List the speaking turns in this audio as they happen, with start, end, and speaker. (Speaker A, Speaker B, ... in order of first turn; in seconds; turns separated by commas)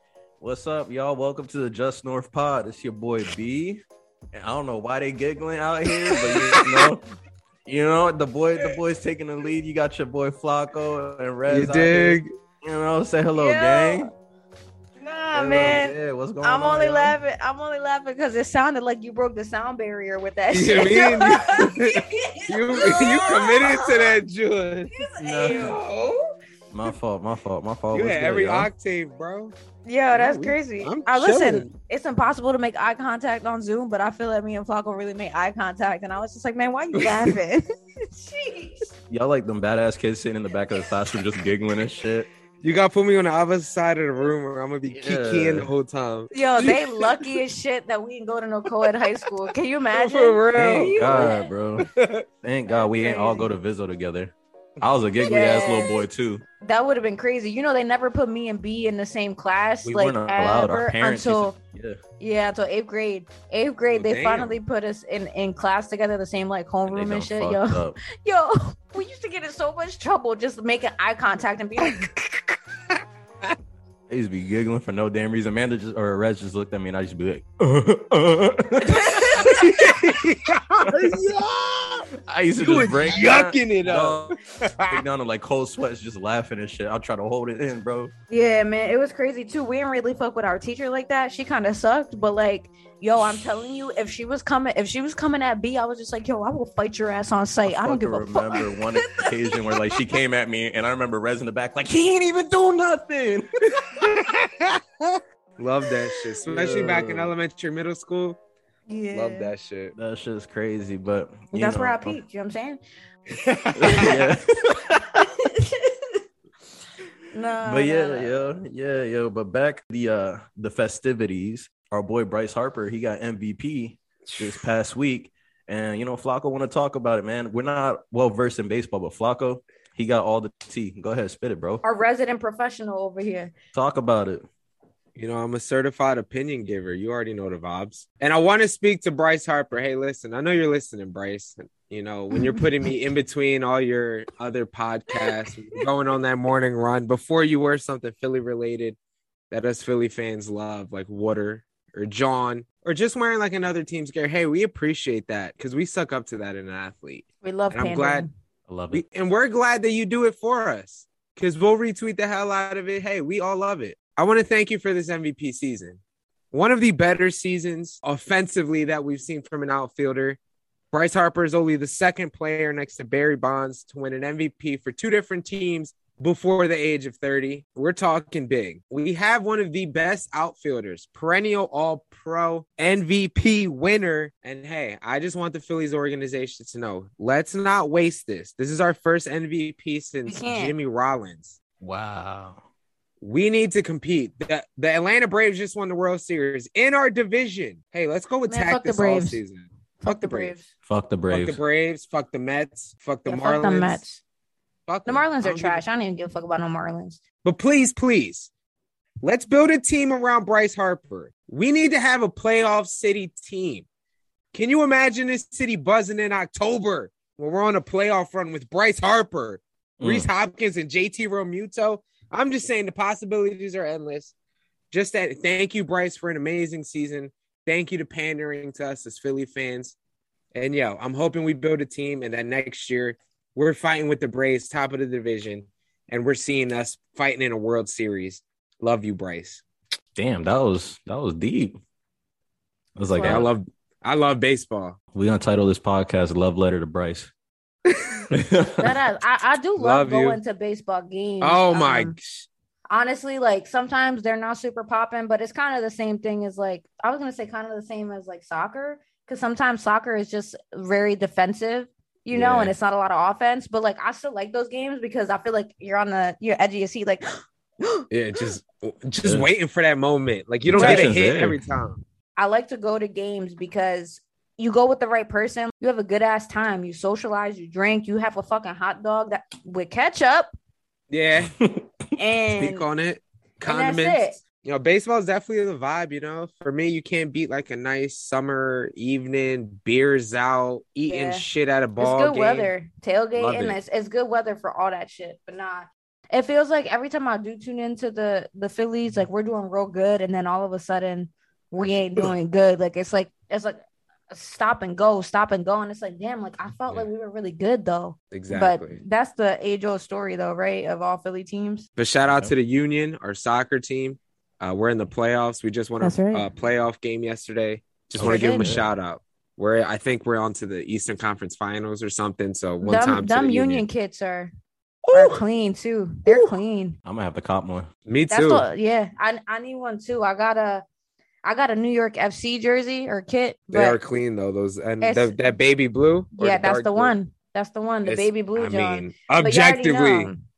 Speaker A: 0.4-3.8, Speaker A: 4.3-7.0, Speaker B: 6.3-6.9, Speaker A: 7.6-14.1, Speaker B: 11.5-12.3, Speaker C: 13.3-14.1, Speaker C: 15.0-24.2, Speaker A: 15.3-17.2, Speaker B: 20.5-24.9, Speaker C: 24.9-25.8, Speaker A: 25.2-25.8, Speaker B: 25.5-26.1, Speaker A: 26.7-28.7, Speaker B: 27.9-29.5, Speaker C: 29.8-38.9, Speaker B: 30.1-31.7, Speaker B: 37.0-37.3, Speaker A: 39.1-42.3, Speaker B: 42.6-47.4, Speaker A: 44.9-45.7, Speaker C: 46.3-51.5, Speaker B: 48.8-49.3, Speaker B: 49.9-52.2, Speaker A: 50.5-51.9, Speaker A: 52.4-56.4, Speaker C: 52.7-53.5, Speaker C: 55.2-56.0, Speaker C: 56.6-61.5, Speaker A: 59.8-62.0, Speaker C: 62.2-72.4, Speaker B: 63.9-64.5, Speaker A: 66.9-68.0, Speaker A: 74.1-80.2, Speaker C: 78.9-79.6, Speaker B: 79.0-82.1, Speaker A: 80.8-81.2, Speaker A: 82.2-84.3, Speaker B: 82.6-85.0, Speaker A: 84.9-88.1, Speaker C: 88.3-99.9, Speaker A: 97.7-104.0, Speaker B: 103.9-108.4, Speaker A: 106.3-107.3, Speaker C: 108.9-109.5, Speaker B: 109.1-109.9, Speaker A: 110.0-112.2, Speaker C: 111.5-112.8, Speaker B: 113.3-114.2, Speaker A: 113.8-115.5, Speaker C: 113.8-114.2, Speaker C: 115.2-116.1, Speaker C: 117.3-118.5, Speaker A: 117.6-131.8, Speaker B: 124.2-124.6, Speaker C: 131.8-133.5, Speaker A: 133.7-134.4, Speaker B: 135.2-149.0, Speaker C: 142.3-142.6, Speaker C: 145.1-145.8, Speaker B: 149.5-158.3, Speaker C: 157.4-158.3, Speaker A: 158.7-159.0, Speaker B: 158.9-166.0, Speaker B: 166.5-170.4, Speaker B: 170.9-191.6, Speaker C: 190.2-190.7, Speaker A: 191.8-192.6, Speaker B: 193.2-200.6, Speaker C: 198.5-199.4, Speaker C: 200.0-200.7, Speaker A: 200.8-201.6, Speaker B: 201.3-204.0, Speaker C: 203.3-204.2, Speaker B: 204.9-205.8, Speaker C: 205.1-207.2, Speaker B: 207.4-208.5, Speaker B: 209.2-213.8, Speaker B: 214.5-224.3, Speaker A: 220.0-220.3, Speaker B: 224.9-229.9, Speaker B: 230.5-239.6, Speaker A: 240.1-241.8, Speaker A: 242.9-243.5, Speaker C: 243.1-243.4, Speaker B: 243.2-245.0, Speaker A: 245.1-247.3, Speaker A: 248.3-249.0, Speaker C: 248.8-252.1, Speaker B: 249.8-250.4, Speaker B: 251.4-252.5, Speaker C: 252.9-268.4, Speaker A: 262.3-262.7, Speaker B: 268.1-272.0, Speaker A: 270.6-271.6, Speaker C: 270.7-271.1, Speaker C: 272.4-280.5, Speaker B: 281.1-281.5, Speaker A: 281.4-281.9, Speaker C: 282.2-282.9, Speaker B: 282.5-292.7, Speaker C: 283.6-284.4, Speaker C: 291.1-291.4, Speaker C: 292.0-303.8, Speaker B: 293.3-293.8, Speaker C: 304.3-311.8, Speaker B: 308.3-309.0, Speaker B: 312.0-323.8, Speaker A: 312.3-312.5, Speaker C: 316.0-316.5, Speaker A: 318.1-318.9, Speaker C: 318.2-318.7, Speaker C: 322.8-324.5, Speaker B: 325.1-325.4, Speaker C: 325.1-326.9, Speaker A: 327.0-327.9, Speaker B: 328.1-328.6, Speaker C: 328.3-330.8, Speaker C: 331.4-334.0, Speaker B: 333.7-337.1, Speaker C: 335.0-335.3, Speaker C: 336.4-340.4, Speaker B: 338.0-340.3